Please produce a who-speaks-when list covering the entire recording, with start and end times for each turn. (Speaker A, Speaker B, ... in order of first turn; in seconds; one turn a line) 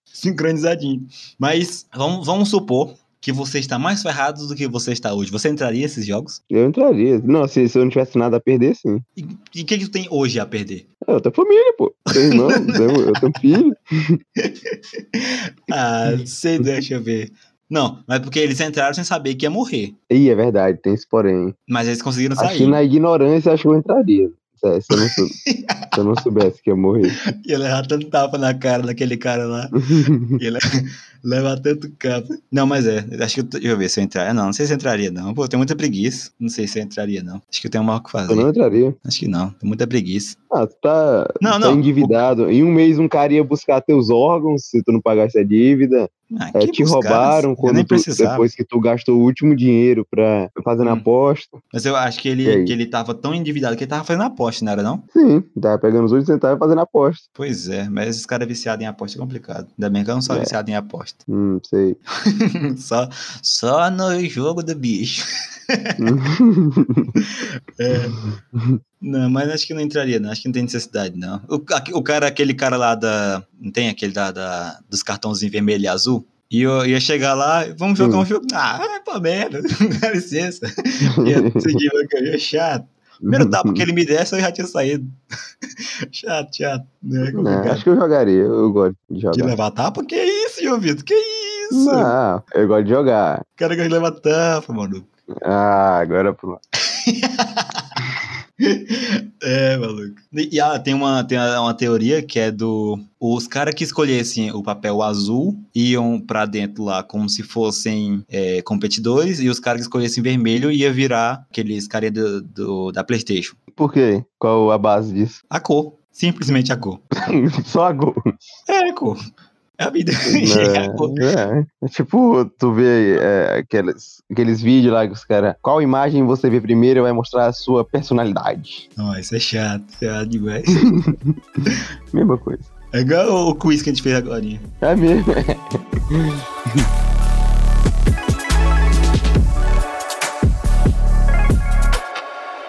Speaker A: 0.1-6.4
Speaker B: 6.5-9.0
Speaker A: 9.2-10.8
Speaker B: 11.0-14.2
Speaker A: 12.2-13.4
Speaker A: 14.4-20.0
Speaker B: 16.1-16.6
Speaker B: 20.1-21.5
Speaker A: 21.7-22.8
Speaker B: 22.4-25.4
Speaker A: 24.9-26.0
Speaker B: 25.9-27.1
Speaker A: 27.3-38.5
Speaker B: 29.8-30.4
Speaker B: 38.3-39.0
Speaker A: 39.0-40.4
Speaker B: 40.5-51.6
Speaker A: 41.4-42.3
Speaker A: 46.3-48.5
Speaker A: 50.8-51.1
Speaker A: 51.7-55.0
Speaker B: 52.4-52.8
Speaker B: 55.1-57.2
Speaker A: 57.4-61.2
Speaker B: 60.3-60.5
Speaker B: 61.3-62.0
Speaker A: 62.3-65.2
Speaker A: 65.7-66.1
Speaker B: 66.0-67.2
Speaker A: 67.2-68.2
Speaker B: 67.9-68.8
Speaker A: 69.0-85.1
Speaker B: 78.0-78.3
Speaker B: 81.0-81.8
Speaker B: 83.2-83.8
Speaker A: 86.1-87.8
Speaker B: 87.3-89.6
Speaker A: 89.3-92.1
Speaker B: 91.7-93.4
Speaker A: 93.6-95.1
Speaker B: 95.4-96.6
Speaker A: 96.9-97.8
Speaker A: 98.6-113.5
Speaker B: 113.7-115.4
Speaker A: 115.5-117.0
Speaker B: 117.3-118.2
Speaker A: 118.7-119.2
Speaker A: 119.8-121.2
Speaker B: 120.3-128.8
Speaker A: 129.0-131.0
Speaker B: 130.8-132.7
Speaker A: 132.9-134.7
Speaker B: 134.8-136.9